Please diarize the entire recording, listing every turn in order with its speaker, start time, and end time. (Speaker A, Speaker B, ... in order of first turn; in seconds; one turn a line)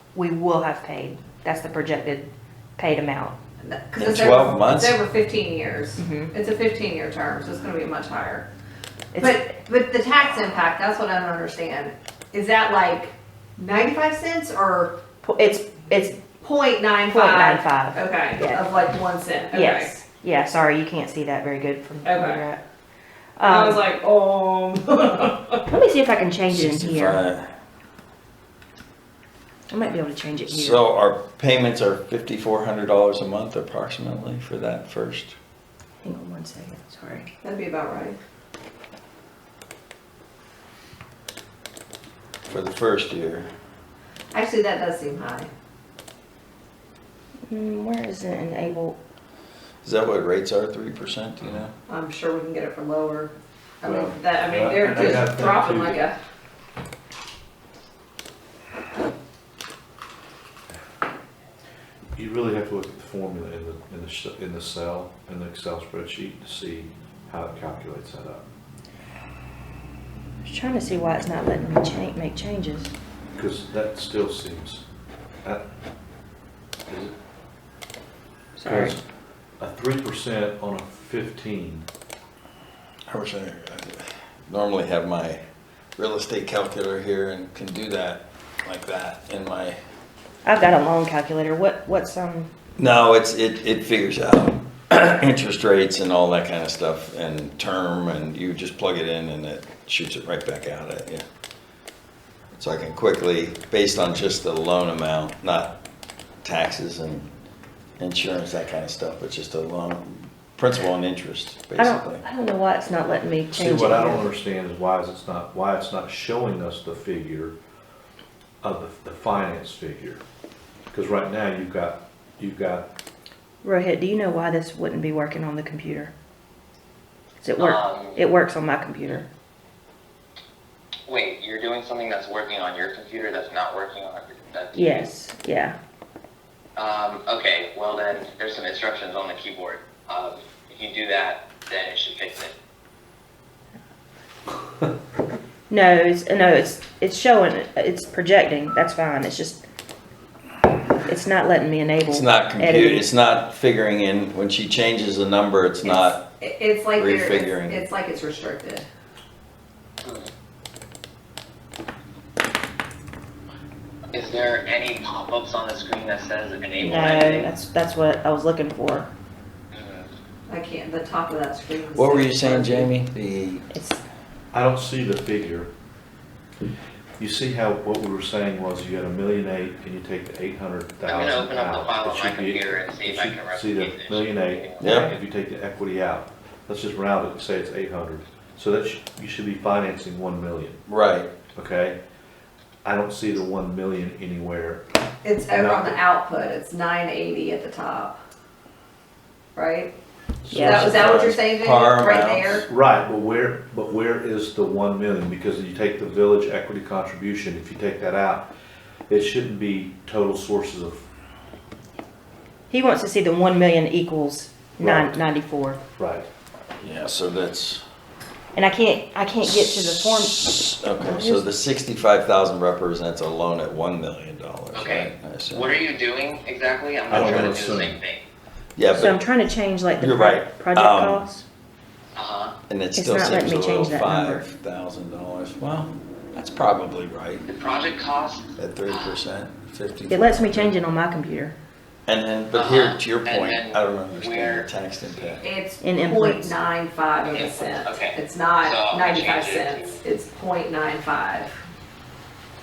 Speaker A: 0.1-3.4
Speaker B: 3.6-8.5
Speaker C: 4.0-5.0
Speaker A: 6.0-6.3
Speaker A: 9.1-9.5
Speaker B: 9.2-15.0
Speaker A: 15.2-16.2
Speaker B: 16.4-20.0
Speaker A: 17.1-18.7
Speaker A: 19.5-22.6
Speaker B: 22.1-22.4
Speaker A: 23.4-23.9
Speaker B: 23.4-25.6
Speaker A: 25.7-27.2
Speaker C: 26.5-27.5
Speaker A: 29.7-30.8
Speaker C: 30.5-35.4
Speaker A: 36.0-37.3
Speaker B: 37.4-38.2
Speaker C: 42.5-43.5
Speaker B: 44.3-45.5
Speaker A: 47.5-49.0
Speaker C: 49.8-51.7
Speaker B: 51.9-56.2
Speaker D: 53.8-56.1
Speaker D: 62.1-68.5
Speaker A: 70.4-72.9
Speaker D: 73.4-74.8
Speaker D: 76.9-77.2
Speaker A: 78.6-79.0
Speaker D: 78.7-79.0
Speaker D: 79.6-81.9
Speaker C: 83.1-85.4
Speaker C: 86.0-89.8
Speaker A: 90.5-92.5
Speaker C: 92.8-101.2
Speaker C: 102.5-105.8
Speaker C: 106.4-107.3
Speaker C: 108.0-112.2
Speaker A: 111.8-114.3
Speaker D: 113.5-117.6
Speaker D: 118.6-120.2
Speaker D: 120.9-122.9
Speaker A: 123.6-126.1
Speaker A: 127.4-129.3
Speaker E: 127.6-128.2
Speaker E: 131.1-135.1
Speaker A: 134.7-135.8
Speaker E: 136.8-142.5
Speaker A: 145.7-149.6
Speaker A: 151.0-153.1
Speaker C: 152.1-156.2
Speaker A: 155.8-156.2
Speaker B: 156.4-158.9
Speaker C: 157.0-157.8
Speaker E: 160.0-160.3
Speaker E: 164.1-167.5
Speaker A: 166.8-169.1
Speaker E: 169.7-170.1
Speaker B: 170.5-172.9
Speaker C: 171.9-173.7
Speaker A: 173.7-174.0
Speaker D: 174.5-175.7
Speaker D: 177.2-190.8
Speaker E: 181.1-185.2
Speaker C: 184.8-185.2
Speaker C: 190.9-191.3
Speaker D: 191.6-192.0
Speaker D: 192.8-194.8
Speaker B: 195.2-198.2
Speaker D: 195.4-196.0
Speaker B: 199.6-199.9
Speaker D: 200.5-201.5
Speaker A: 200.5-201.1
Speaker C: 200.6-202.7
Speaker B: 200.6-202.7
Speaker D: 202.6-208.5
Speaker D: 209.1-211.0
Speaker A: 212.7-215.8
Speaker D: 214.8-215.2
Speaker D: 216.0-216.3
Speaker C: 216.8-217.8
Speaker A: 218.6-221.5
Speaker C: 220.0-225.8
Speaker E: 224.7-228.2
Speaker C: 227.1-227.6
Speaker D: 227.1-228.0
Speaker C: 228.8-229.2
Speaker A: 228.9-231.4
Speaker C: 230.0-231.3
Speaker E: 232.2-232.6
Speaker C: 232.7-237.4
Speaker A: 232.9-234.5
Speaker E: 237.5-239.2
Speaker C: 238.6-240.7
Speaker A: 240.1-241.6
Speaker C: 242.1-245.4
Speaker E: 242.5-245.4
Speaker B: 245.4-251.5
Speaker A: 245.8-246.6
Speaker E: 247.3-250.0